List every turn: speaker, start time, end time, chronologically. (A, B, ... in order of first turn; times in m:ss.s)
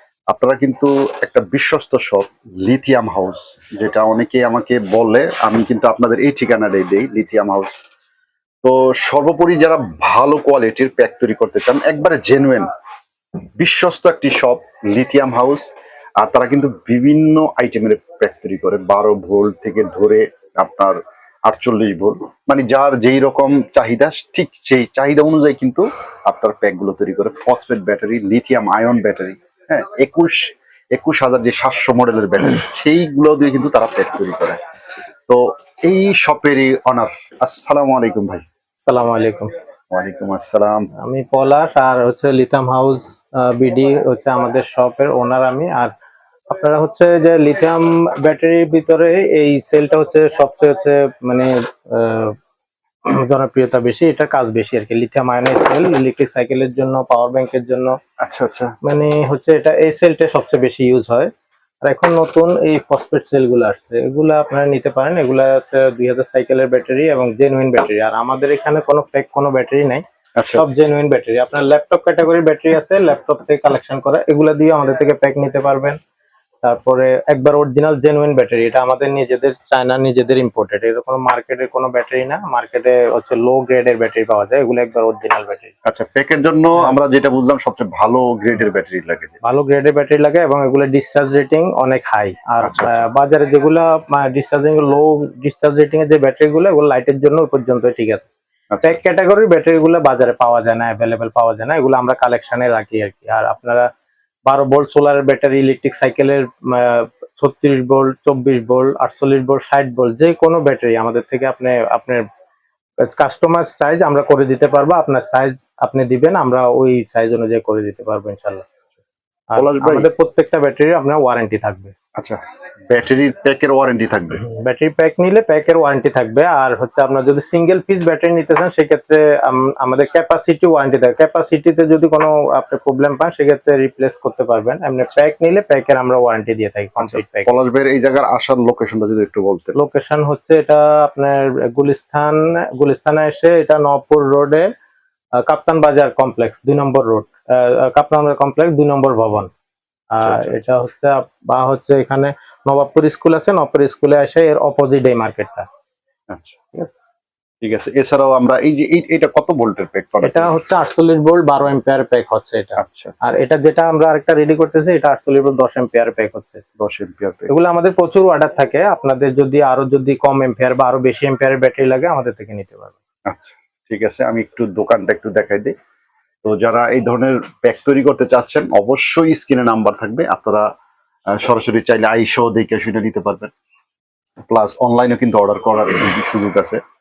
0:00.3-0:07.7 A
0:08.6-0:12.7 A
0:13.6-0:34.6 A
0:35.3-0:38.4 A
0:38.8-0:39.5 B
0:39.9-0:40.9 A
0:41.0-0:45.9 B
0:46.5-0:52.4 B
0:53.1-0:58.0 B
0:58.2-0:58.8 A
0:58.8-1:01.3 B
1:01.8-1:10.0 B
1:10.4-1:10.7 A
1:10.5-1:16.0 B
1:16.6-1:25.7 B
1:25.8-1:29.4 A
1:29.4-1:38.3 B
1:32.6-1:33.0 A
1:38.7-1:39.0 A
1:38.8-1:43.8 B
1:44.4-1:52.2 B
1:53.0-1:58.6 B
1:59.5-2:01.9 B
1:59.6-2:00.1 A
2:02.2-2:04.4 A
2:04.4-2:17.5 B
2:17.0-2:19.8 A
2:19.7-2:24.7 B
2:25.4-2:29.5 B
2:30.1-2:35.7 B
2:30.2-2:30.5 A
2:36.3-2:36.6 A
2:37.6-2:40.6 A
2:40.2-2:46.6 B
2:42.8-2:43.2 A
2:46.8-2:47.5 A
2:47.5-2:52.9 B
2:53.3-2:55.7 A
2:56.4-3:00.6 A
3:01.3-3:03.5 A
3:04.5-3:06.8 A